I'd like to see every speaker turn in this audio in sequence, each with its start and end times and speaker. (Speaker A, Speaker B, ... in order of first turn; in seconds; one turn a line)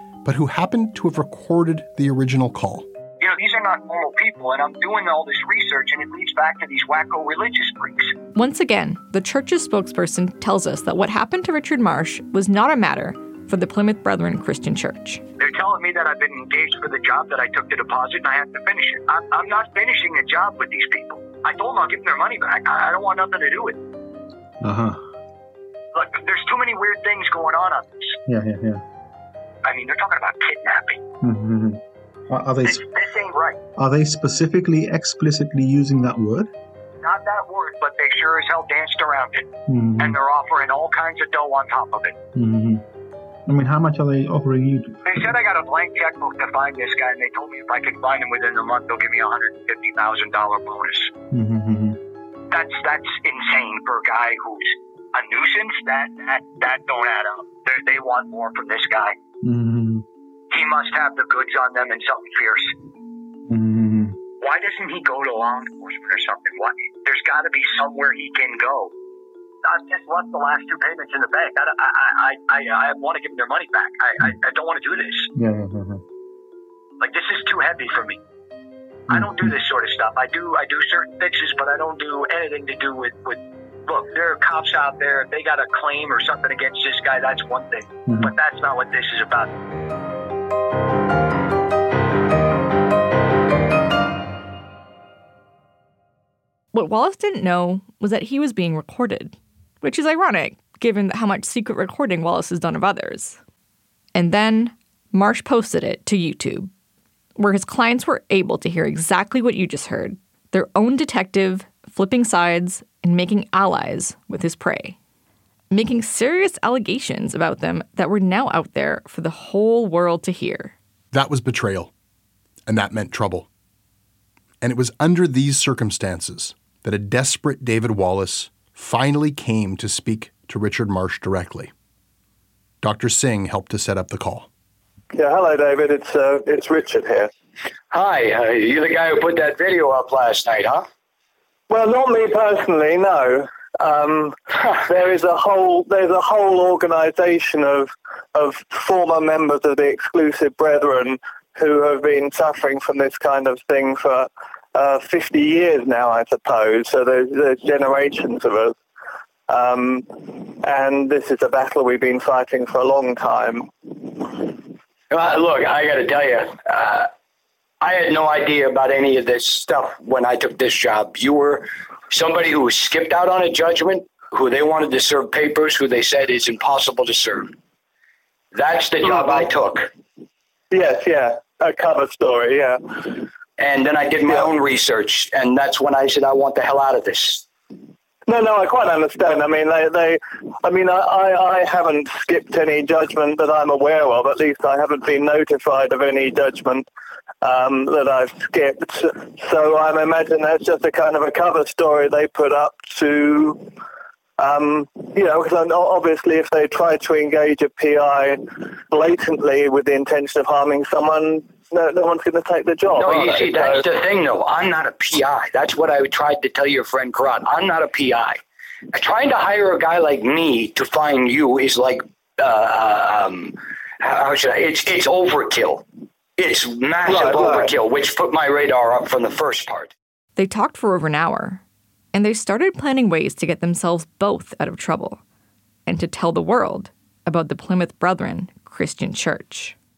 Speaker A: 0.2-2.9
Speaker B: 3.2-8.1
Speaker C: 8.3-15.2
Speaker B: 15.4-23.8
Speaker D: 24.6-25.0
Speaker B: 25.9-28.2
Speaker D: 28.3-28.8
Speaker B: 29.6-31.0
Speaker D: 31.2-32.9
Speaker B: 32.6-33.6
Speaker D: 33.8-36.5
Speaker B: 37.0-42.2
Speaker D: 39.7-40.2
Speaker D: 42.4-42.8
Speaker D: 43.5-45.0
Speaker B: 45.1-51.1
Speaker D: 51.3-52.0
Speaker B: 52.5-59.2
Speaker D: 59.4-60.0
Speaker B: 60.5-62.7
Speaker D: 63.5-64.2
Speaker B: 64.4-68.9
Speaker B: 69.7-75.3
Speaker D: 75.3-76.0
Speaker B: 77.0-78.2
Speaker D: 79.1-79.6
Speaker B: 79.1-89.5
Speaker D: 88.1-88.3
Speaker C: 96.7-103.4
Speaker C: 104.2-106.7
Speaker C: 107.4-115.0
Speaker C: 115.7-120.8
Speaker A: 121.1-121.9
Speaker A: 122.7-123.5
Speaker A: 124.6-131.7
Speaker A: 132.8-134.5
Speaker E: 135.1-137.3
Speaker B: 137.9-140.9
Speaker E: 141.7-158.8
Speaker E: 159.5-164.4
Speaker B: 165.1-167.1
Speaker B: 167.8-177.6
Speaker B: 178.5-179.9
Speaker E: 180.7-183.2
Speaker B: 183.6-187.5
Speaker E: 184.3-184.5
Speaker E: 188.3-196.9
Speaker E: 197.4-203.7
Speaker E: 204.4-213.9
Speaker B: 212.9-229.9
Speaker E: 227.1-227.7
Speaker C: 230.4-231.6
Speaker C: 232.1-235.2
Speaker C: 235.9-239.8